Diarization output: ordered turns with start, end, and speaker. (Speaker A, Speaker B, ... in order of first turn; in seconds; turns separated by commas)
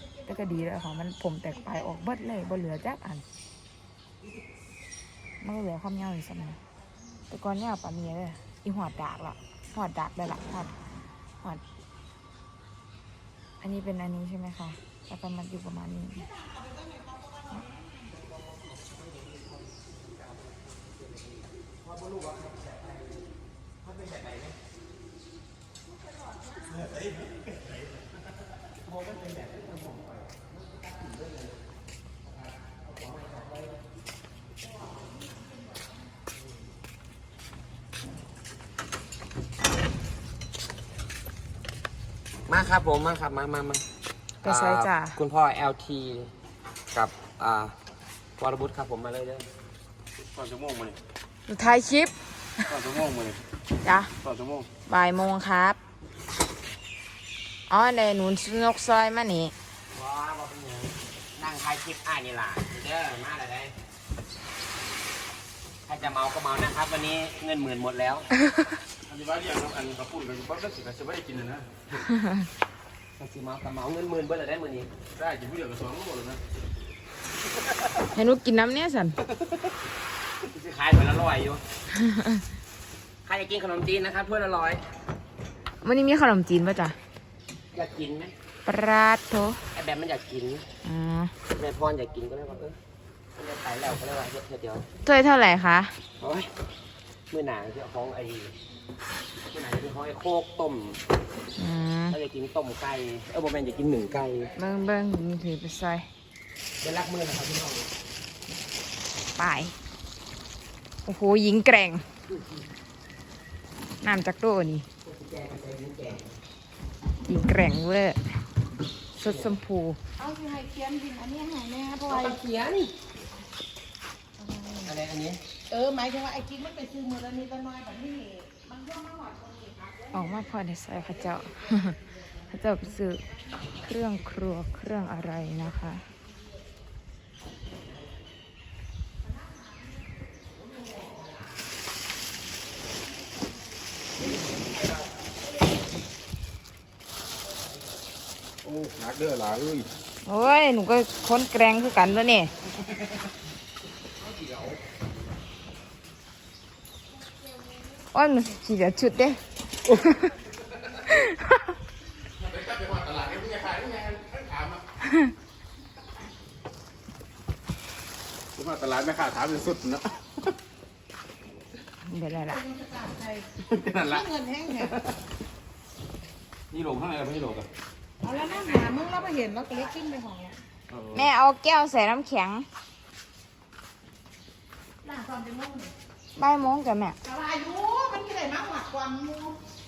Speaker A: 0.2-3.2, Speaker A: 5.4-6.6, Speaker A: 7.3-10.8, Speaker A: 13.6-16.3, Speaker B: 16.6-17.0, Speaker C: 42.5-43.9, Speaker A: 44.4-45.2, Speaker C: 44.4-46.3, Speaker C: 46.9-47.8, Speaker C: 48.4-49.5, Speaker D: 50.2-51.0, Speaker A: 51.5-52.6, Speaker D: 52.7-53.4, Speaker A: 53.8-54.1, Speaker D: 54.2-54.7, Speaker A: 54.9-55.8, Speaker A: 57.7-59.5, Speaker C: 59.9-63.8, Speaker C: 65.9-68.3, Speaker D: 69.0-71.8, Speaker C: 73.2-74.9, Speaker D: 75.1-76.4, Speaker A: 78.1-79.2, Speaker C: 80.4-81.6, Speaker A: 82.0-82.4, Speaker C: 83.2-84.9, Speaker A: 85.8-87.0, Speaker C: 87.7-88.3, Speaker A: 88.7-89.6, Speaker C: 89.7-90.7, Speaker A: 90.8-91.3, Speaker C: 91.5-92.8, Speaker C: 93.4-94.9, Speaker A: 95.0-96.0, Speaker C: 96.2-96.5, Speaker C: 97.3-98.5, Speaker C: 99.5-101.0, Speaker A: 101.6-102.2, Speaker C: 102.1-104.5, Speaker A: 104.6-106.1, Speaker C: 106.8-107.9, Speaker A: 109.4-109.8, Speaker A: 111.0-112.0, Speaker A: 114.0-114.9, Speaker C: 115.0-116.4, Speaker A: 117.2-118.3, Speaker A: 119.2-120.0, Speaker C: 119.2-119.5, Speaker B: 120.2-122.4, Speaker C: 122.1-122.9, Speaker B: 124.4-125.0, Speaker C: 124.8-125.4, Speaker B: 125.7-130.1, Speaker A: 130.1-136.1, Speaker D: 148.6-149.9, Speaker A: 150.2-152.5, Speaker A: 158.1-160.4, Speaker A: 161.0-161.6, Speaker D: 162.4-164.8, Speaker D: 168.6-170.3, Speaker A: 172.0-172.6, Speaker B: 172.5-175.0, Speaker D: 173.8-174.2, Speaker D: 176.7-177.7, Speaker B: 178.2-180.6, Speaker C: 178.6-179.2, Speaker D: 180.9-181.2, Speaker A: 181.1-182.7, Speaker B: 185.0-185.9, Speaker A: 186.4-187.2, Speaker B: 187.2-189.6